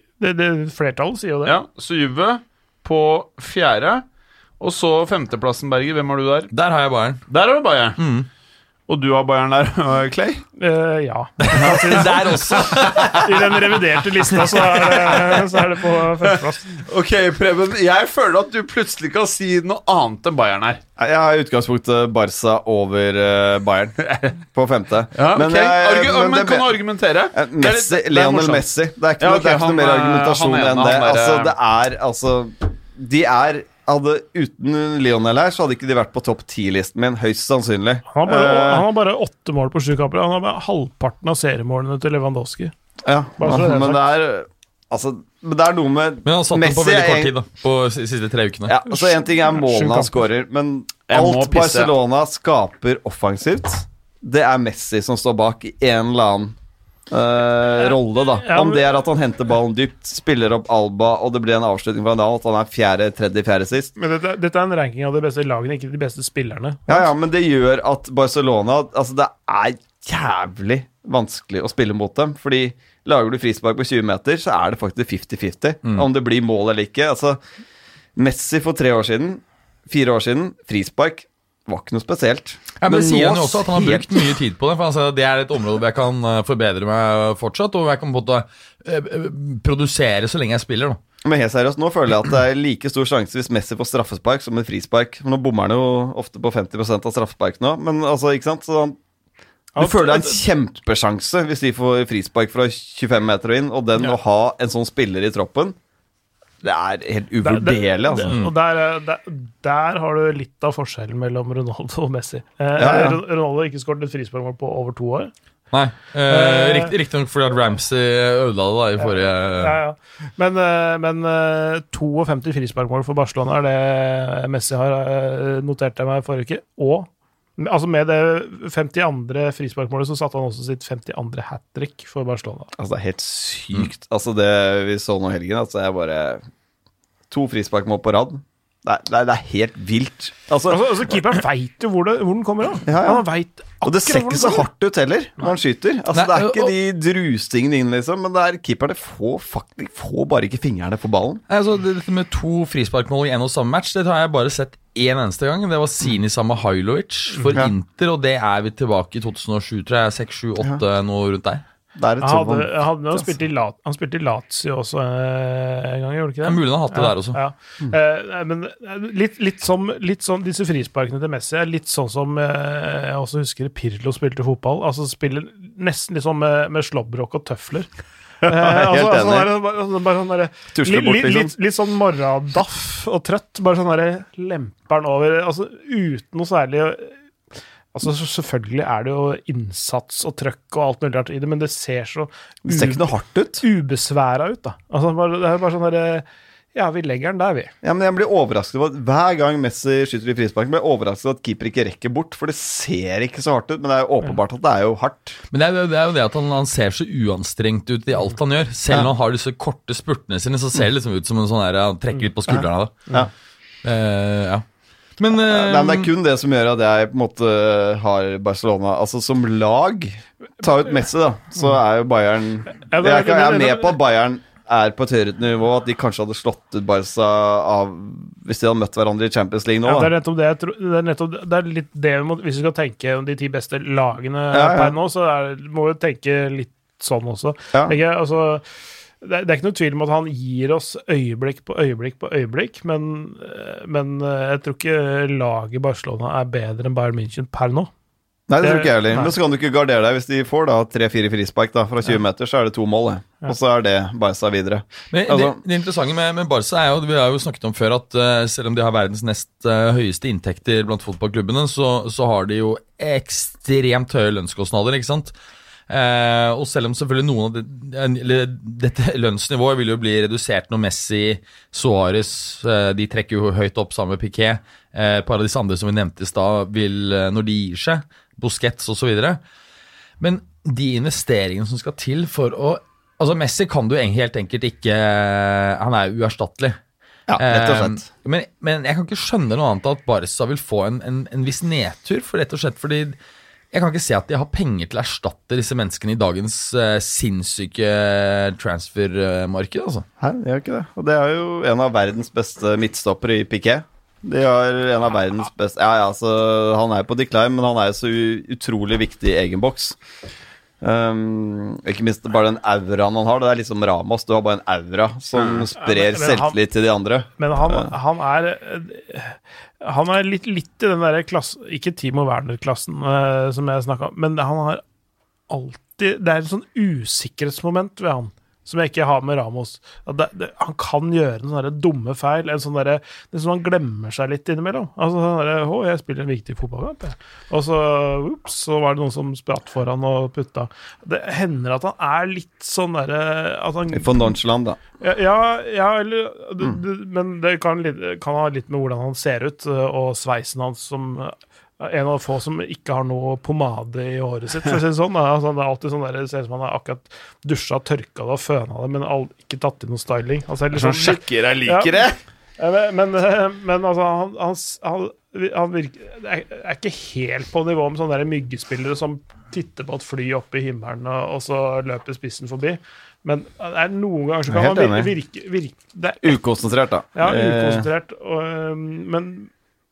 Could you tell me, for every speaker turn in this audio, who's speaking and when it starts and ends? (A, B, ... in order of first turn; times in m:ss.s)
0:00.2-0:01.6 A
0:01.4-0:04.0 B
0:04.6-0:06.5 B
0:06.5-0:07.3 C
0:07.3-0:08.0 B
0:08.0-0:08.3 C
0:08.9-0:10.4 B
0:10.6-0:16.8 A
0:11.4-0:13.4 C
0:11.5-0:13.3 B
0:14.4-0:15.4 B
0:16.2-0:20.8 B
0:21.0-0:26.8 D
0:25.1-0:28.7 B
0:27.3-0:38.9 D
0:29.2-0:31.5 B
0:38.1-0:42.7 A
0:43.0-0:47.3 D
0:43.4-0:44.0 A
0:46.2-0:48.7 C
0:48.7-0:56.6 D
0:48.9-0:50.2 A
0:51.1-0:51.9 B
0:57.1-1:03.9 D
0:57.9-0:58.8 A
1:04.0-1:07.1 A
1:06.9-1:17.4 D
1:18.2-1:24.4 D
1:22.8-1:31.0 C
1:31.2-1:39.0 D
1:39.8-1:40.4 A
1:39.8-1:45.8 D
1:46.6-1:48.4 D
1:47.4-1:55.3 A
1:52.8-1:53.2 D
1:55.7-1:59.8 C
1:56.3-1:56.9 A
1:59.0-2:12.7 A
2:12.8-2:16.4 D
2:17.3-2:21.0 D
2:20.7-2:24.7 A
2:22.9-2:23.2 D
2:23.8-2:31.4 D
2:26.1-2:26.7 C
2:31.5-2:41.6 C
2:42.0-2:43.3 D
2:42.2-2:57.9 A
2:46.4-2:47.4 C
2:58.4-3:07.2 A
2:58.4-2:59.5 D
3:00.7-3:01.5 D
3:07.9-3:17.7 A
3:12.6-3:13.6 D
3:17.8-3:25.4 D
3:25.5-3:33.1 C
3:33.8-3:34.6 C
3:35.2-3:36.1 C
3:35.4-3:50.1 D
3:42.8-3:44.0 A
3:49.8-3:58.6 A
3:54.5-3:55.0 D
3:59.2-4:07.9 A
4:08.5-4:15.6 D
4:08.6-4:09.3 A
4:15.1-4:25.3 C
4:25.9-4:39.4 C
4:40.2-4:46.8 C
4:47.3-4:48.1 D
4:47.4-4:53.2 C
4:53.7-5:00.1 C
5:00.2-5:10.0 D
5:10.8-5:17.9 D
5:15.8-5:16.6 A
5:17.4-5:24.8 A
5:25.5-5:44.4 A
5:43.9-5:44.8 D
5:45.0-6:02.1 A
6:00.7-6:02.2 B
6:02.6-6:16.4 A
6:14.5-6:15.1 D
6:16.2-6:17.9 D
6:17.2-6:19.5 A